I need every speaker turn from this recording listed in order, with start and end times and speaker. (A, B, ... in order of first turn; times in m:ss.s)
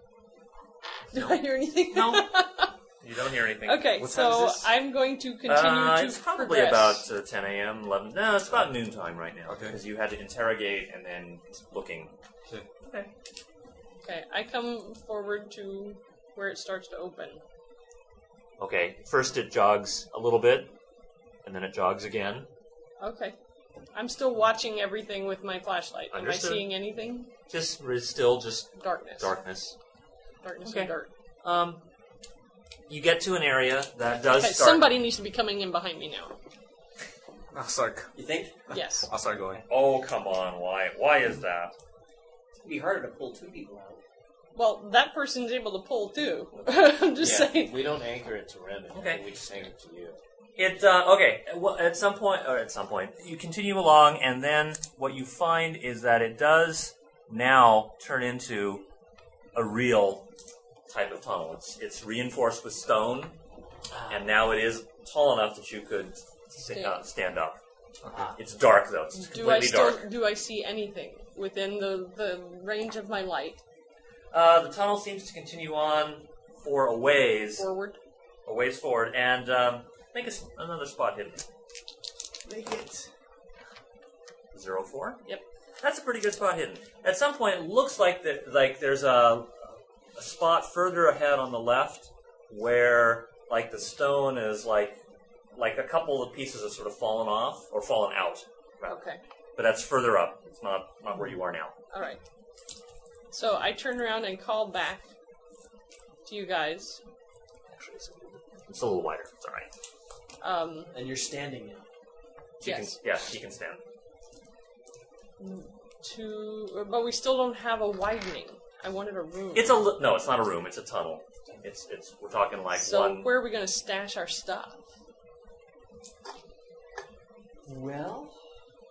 0:01.1-0:02.7 A
0:01.2-0:02.3 B
0:03.0-0:04.1 B
0:03.6-0:07.0 A
0:04.0-0:04.7 C
0:05.5-0:12.1 B
0:09.5-0:09.8 C
0:12.8-0:13.1 B
0:14.0-0:17.4 A
0:18.6-0:20.7 B
0:21.4-0:22.5 B
0:23.0-0:23.4 A
0:23.9-0:27.3 A
0:26.1-0:26.7 B
0:27.5-0:29.7 B
0:28.8-0:29.3 A
0:30.4-0:31.1 A
0:30.6-0:31.8 B
0:32.9-0:34.9 B
0:34.3-0:36.3 A
0:37.5-0:38.1 C
0:38.2-0:38.5 D
0:38.7-0:39.6 C
0:38.7-0:39.1 A
0:39.7-0:41.7 B
0:42.6-0:44.0 D
0:44.5-0:47.8 A
0:47.2-0:50.2 E
0:48.9-0:49.2 B
0:50.6-0:58.8 B
0:59.5-1:00.3 B
1:00.9-1:03.4 B
1:03.9-1:04.3 D
1:04.1-1:07.6 B
1:06.7-1:07.0 A
1:08.1-1:08.4 D
1:08.4-1:10.0 B
1:09.1-1:13.6 A
1:14.3-1:17.7 B
1:17.6-1:18.0 A
1:18.4-1:21.4 B
1:22.5-1:23.0 D
1:24.5-1:25.2 B
1:25.8-1:35.0 B
1:35.6-1:39.0 B
1:38.8-1:39.2 A
1:39.6-1:41.8 B
1:41.9-1:42.2 A
1:43.3-1:45.0 A
1:46.2-1:47.0 A
1:47.7-1:49.7 B
1:50.4-1:50.9 A
1:50.9-1:51.9 D
1:52.6-1:53.8 B
1:52.6-1:53.0 A
1:55.4-1:59.9 A
1:59.5-2:03.3 B
2:02.7-2:04.8 A
2:07.6-2:08.4 D